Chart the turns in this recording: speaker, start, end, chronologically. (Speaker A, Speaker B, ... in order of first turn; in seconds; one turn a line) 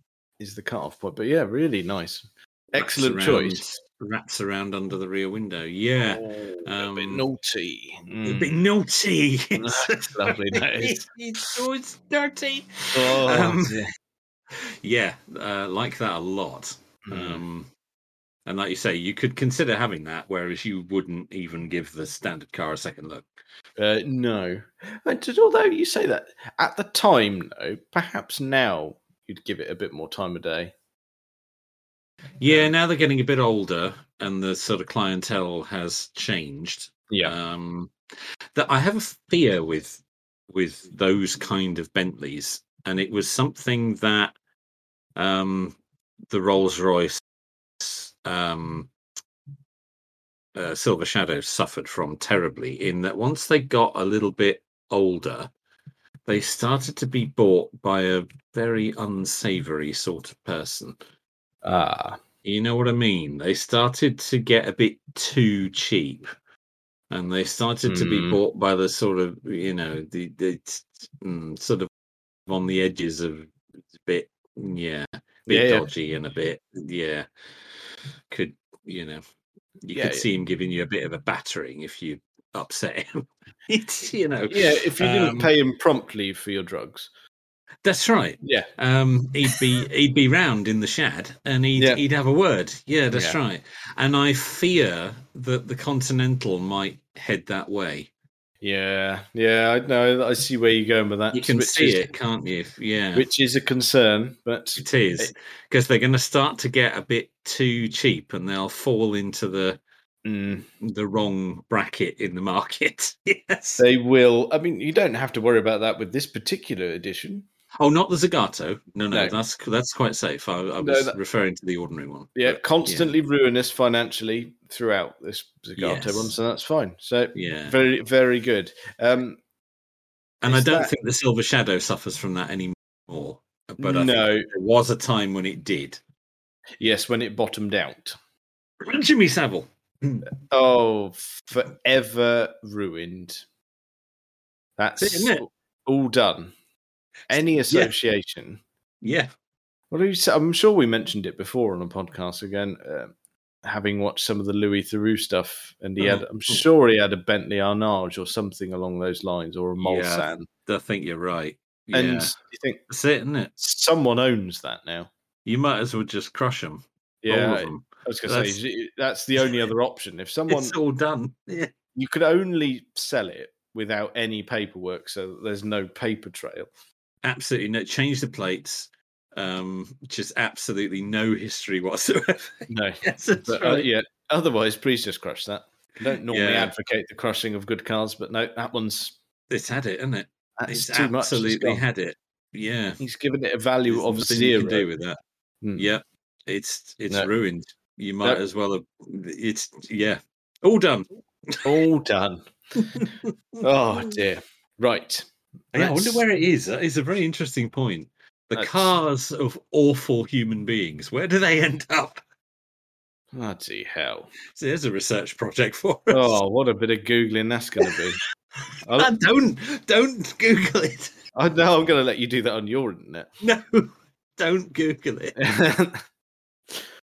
Speaker A: 0.4-3.6
Speaker B: 2.7-7.2
Speaker A: 6.1-8.5
Speaker B: 8.2-13.8
Speaker A: 9.5-11.1
Speaker A: 12.9-13.9
Speaker B: 14.8-17.7
Speaker A: 17.1-17.4
Speaker B: 18.4-23.3
Speaker A: 23.8-30.7
Speaker B: 32.4-37.9
Speaker A: 32.4-32.7
Speaker B: 38.5-44.3
Speaker B: 45.1-45.8
Speaker B: 46.3-47.2
Speaker B: 47.8-48.9
Speaker B: 50.5-55.5
Speaker B: 56.2-61.0
Speaker A: 61.6-62.2
Speaker B: 62.4-66.3
Speaker B: 67.1-71.9
Speaker A: 67.9-68.4
Speaker B: 72.5-77.3
Speaker A: 75.5-75.9
Speaker B: 78.3-79.2
Speaker B: 79.8-85.5
Speaker A: 79.9-80.2
Speaker A: 84.5-87.1
Speaker B: 87.8-98.1
Speaker A: 88.4-88.7
Speaker A: 93.1-93.4
Speaker A: 98.6-102.1
Speaker B: 101.3-103.3
Speaker A: 103.1-105.3
Speaker B: 104.8-109.8
Speaker A: 110.2-110.7
Speaker B: 110.8-113.8
Speaker A: 113.8-117.5
Speaker B: 117.8-123.1
Speaker A: 119.1-119.4
Speaker A: 120.8-121.2
Speaker A: 122.3-129.4
Speaker B: 125.8-126.3
Speaker B: 127.3-127.8
Speaker B: 130.4-136.0
Speaker A: 130.4-130.9
Speaker A: 133.8-134.5
Speaker A: 136.8-138.2
Speaker B: 138.8-140.3
Speaker A: 140.4-143.4
Speaker A: 144.8-146.5
Speaker B: 145.0-145.4
Speaker A: 147.3-148.6
Speaker B: 149.0-149.3
Speaker A: 149.9-160.5
Speaker B: 156.0-156.6
Speaker B: 159.8-162.3
Speaker A: 161.9-162.8
Speaker B: 162.9-163.5
Speaker A: 163.6-165.1
Speaker B: 165.4-168.6
Speaker A: 167.2-170.8
Speaker B: 169.4-169.6
Speaker B: 170.5-171.7
Speaker A: 171.9-176.7
Speaker B: 177.2-183.9
Speaker A: 182.7-189.2
Speaker B: 186.1-186.7
Speaker B: 189.5-193.0
Speaker A: 190.6-191.8
Speaker A: 193.0-194.8
Speaker B: 193.9-195.2
Speaker A: 195.6-195.9
Speaker B: 195.8-201.7
Speaker A: 201.6-202.4
Speaker B: 202.8-203.3
Speaker A: 203.6-206.2
Speaker B: 205.7-212.2
Speaker A: 208.5-208.9
Speaker A: 213.3-214.3
Speaker B: 214.5-216.4
Speaker A: 216.1-218.2
Speaker A: 218.8-219.1
Speaker B: 218.9-221.1
Speaker A: 221.3-223.3
Speaker B: 223.4-225.4
Speaker A: 225.4-226.0